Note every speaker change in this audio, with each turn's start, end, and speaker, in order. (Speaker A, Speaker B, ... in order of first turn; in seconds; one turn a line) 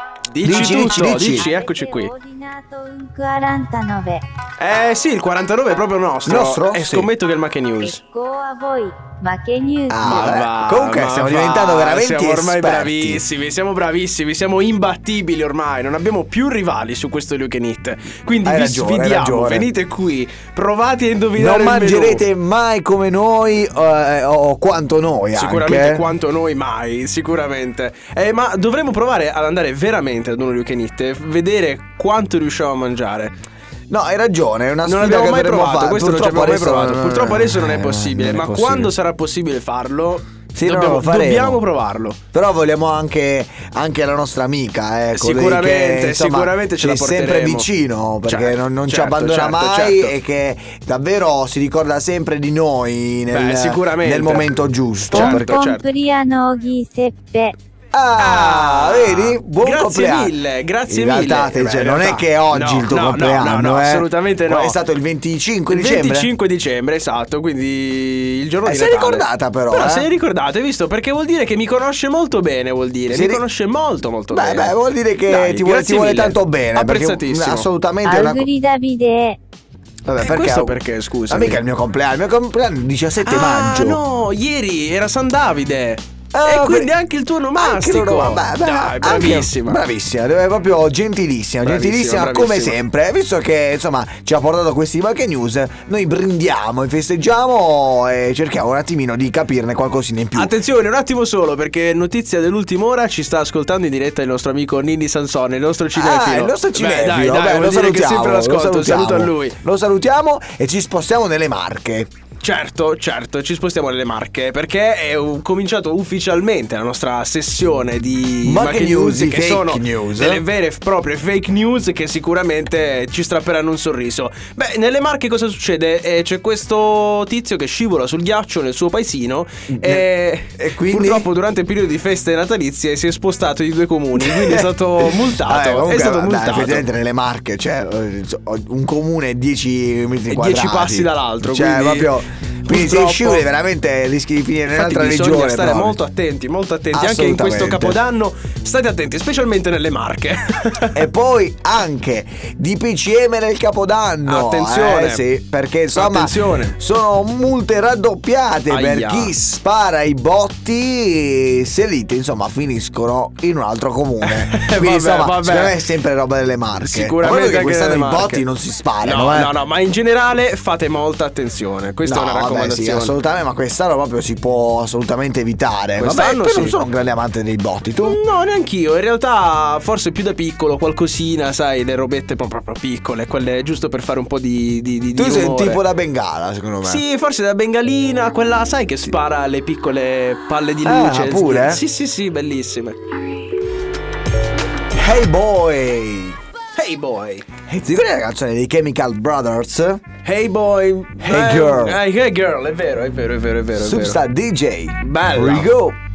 Speaker A: 0.3-2.1
Speaker B: 0.4-1.5
Speaker C: 0.8-4.2
Speaker A: 4.6-8.0
Speaker B: 6.2-7.1
Speaker C: 7.8-10.2
Speaker B: 9.9-13.2
Speaker A: 10.0-22.2
Speaker B: 18.4-19.7
Speaker B: 21.4-26.1
Speaker A: 25.3-33.3
Speaker B: 33.9-38.9
Speaker A: 34.8-42.2
Speaker B: 40.5-41.6
Speaker B: 42.3-55.6
Speaker A: 45.1-47.7
Speaker A: 48.2-50.1
Speaker A: 53.3-54.5
Speaker A: 55.1-55.8
Speaker C: 55.1-57.5
Speaker B: 57.9-60.4
Speaker A: 58.2-64.8
Speaker B: 60.9-66.3
Speaker A: 65.7-74.8
Speaker B: 68.6-70.1
Speaker B: 73.1-73.4
Speaker B: 74.3-78.5
Speaker A: 75.3-77.7
Speaker C: 78.0-79.4
Speaker B: 80.0-80.8
Speaker A: 80.2-81.6
Speaker B: 81.3-84.0
Speaker A: 83.2-89.8
Speaker B: 86.3-86.9
Speaker B: 87.6-100.6
Speaker A: 91.6-92.8
Speaker A: 100.3-109.6
Speaker B: 105.9-112.1
Speaker A: 112.4-136.9
Speaker B: 118.4-120.4
Speaker B: 129.7-131.3
Speaker B: 134.2-146.0
Speaker A: 140.3-143.4
Speaker A: 144.7-151.1
Speaker B: 146.9-148.0
Speaker B: 150.9-169.5
Speaker A: 154.2-155.3
Speaker A: 155.9-156.8
Speaker A: 158.7-159.3
Speaker A: 164.2-165.8
Speaker A: 166.8-168.4
Speaker A: 169.0-173.2
Speaker B: 172.0-178.2
Speaker A: 176.0-176.8
Speaker A: 178.0-185.8
Speaker B: 185.1-187.0
Speaker A: 186.8-192.9
Speaker B: 190.8-191.8
Speaker B: 194.9-196.4
Speaker A: 196.7-197.5
Speaker B: 197.7-200.0
Speaker A: 200.2-204.2
Speaker B: 201.2-202.0
Speaker B: 203.7-206.0
Speaker A: 205.0-205.8